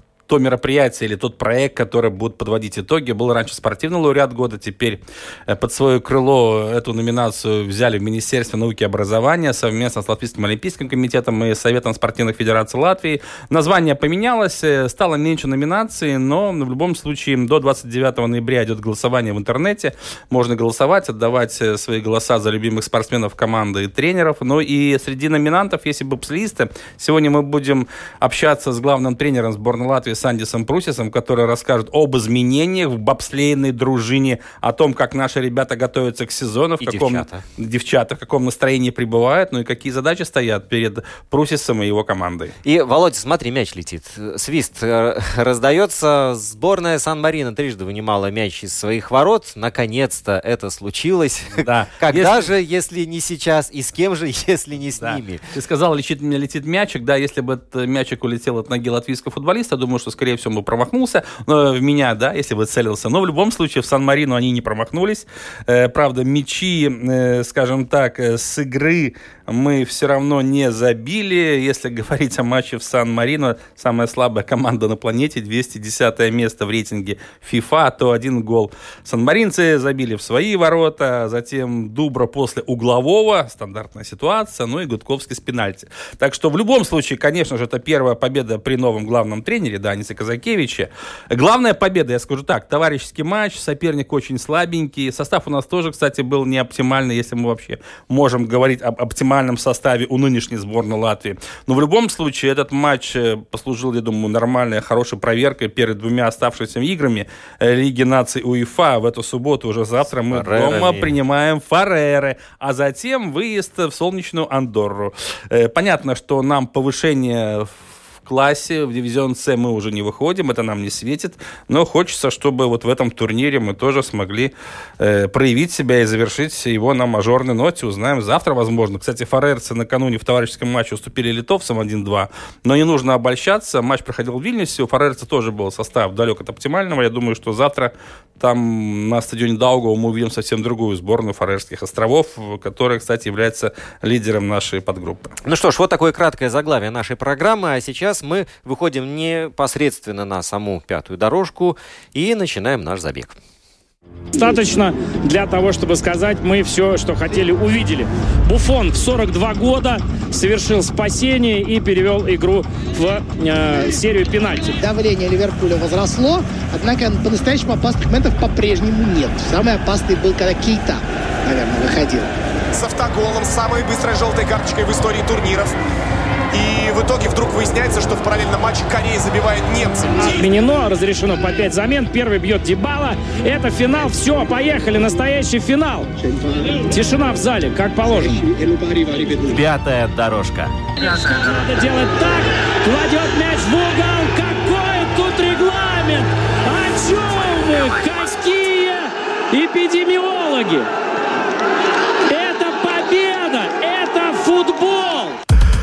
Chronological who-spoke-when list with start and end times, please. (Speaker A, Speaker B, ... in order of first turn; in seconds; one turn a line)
Speaker A: 0.3-42.5
Speaker B: 36.8-37.4
Speaker B: 42.6-55.5
Speaker A: 51.6-52.5
Speaker A: 55.0-145.3
Speaker B: 110.3-111.2
Speaker B: 145.4-153.3
Speaker C: 154.3-164.8
Speaker D: 164.8-172.3
Speaker E: 172.7-175.8
Speaker E: 176.5-180.5
Speaker C: 180.2-186.1
Speaker C: 186.8-188.4
Speaker C: 191.0-200.9
Speaker C: 202.3-205.4